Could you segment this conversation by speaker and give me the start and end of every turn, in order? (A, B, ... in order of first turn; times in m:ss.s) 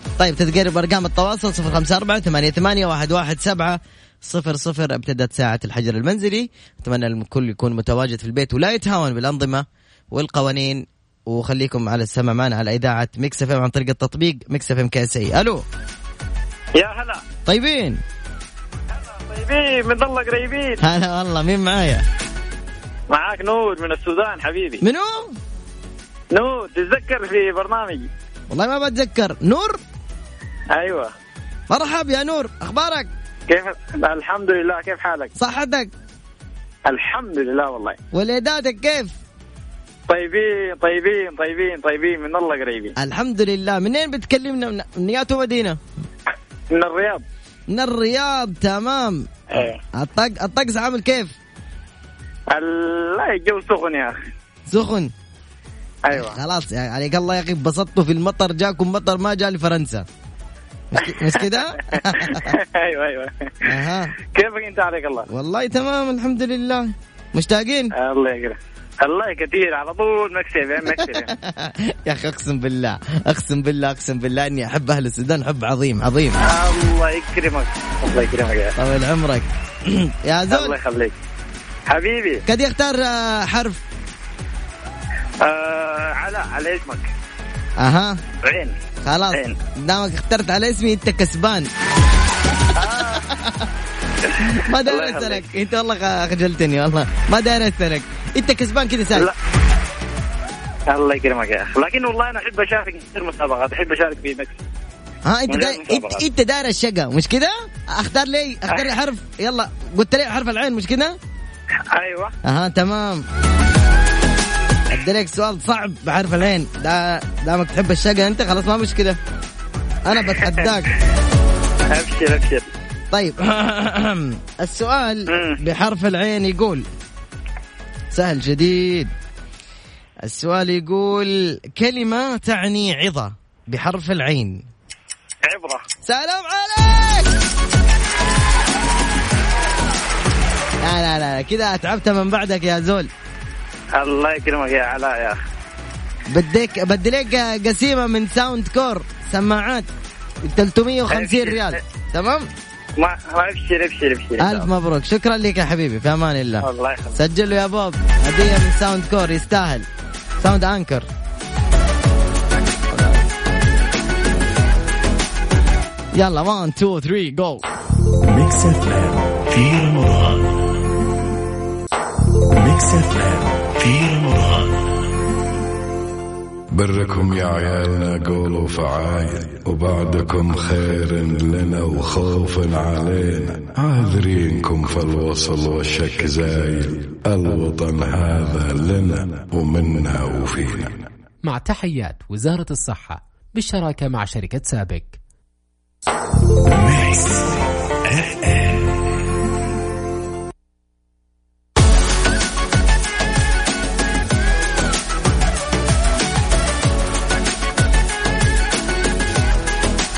0:00.2-0:15.6 A
0:16.7-0:17.2 B
0:17.4-0:18.0 A
0:18.9-0:20.8 B
0:20.8-0:22.0 A
0:23.1-0:24.8 B
0:24.8-0:25.4 A
0:26.3-0:28.1 B
0:28.5-0:29.8 A
0:30.7-0:31.1 B
0:31.7-0:33.1 A
0:33.5-0:35.3 B
0:35.4-0:35.9 A
0:36.9-0:38.0 B
0:38.1-0:39.1 A
0:40.1-0:42.9 B
0:43.0-0:45.8 A
0:46.7-0:47.2 B
0:47.7-0:51.3 A
0:49.5-0:49.8 B
0:52.5-0:54.2 B
0:54.7-0:55.1 A
0:56.1-0:56.4 B
0:56.1-1:00.0 A
1:00.9-1:02.5 A
1:01.3-1:03.7 B
1:03.6-1:04.1 A
1:04.3-1:05.2 B
1:05.3-1:07.9 A
1:07.9-1:11.3 B
1:10.9-1:16.4 A
1:16.4-1:18.7 B
1:18.8-1:20.8 A
1:20.5-1:21.1 B
1:21.9-1:22.4 B
1:22.4-1:23.8 A
1:25.4-1:27.1 B
1:27.8-1:28.2 A
1:28.4-1:28.7 B
1:29.0-1:31.7 A
1:29.3-1:29.6 B
1:32.7-1:33.3 B
1:33.1-1:33.6 A
1:34.3-1:35.4 B
1:34.5-1:39.3 A
1:40.9-1:44.6 B
1:45.2-1:51.2 A
1:45.5-1:46.2 B
1:51.9-1:52.3 B
1:52.4-1:53.2 A
1:54.9-1:59.2 A
2:00.0-2:00.9 A
2:00.4-2:00.7 B
2:01.9-2:02.6 B
2:03.1-2:06.8 A
2:05.3-2:05.6 B
2:08.1-2:09.1 A
2:10.2-2:14.6 A
2:15.4-2:15.8 B
2:16.0-2:17.4 A
2:20.8-2:23.1 A
2:23.9-2:25.4 B
2:26.3-2:29.9 A
2:30.4-2:32.5 A
2:31.1-2:31.8 B
2:33.0-2:34.7 B
2:34.4-2:39.9 A
2:36.6-2:37.2 B
2:40.4-2:41.1 A
2:42.9-2:43.2 A
2:46.1-2:47.7 A
2:48.2-2:50.4 C
2:52.5-2:54.7 C
2:56.7-3:11.0 D
3:11.4-3:15.2 E
3:16.7-3:17.5 C
3:18.1-3:18.8 C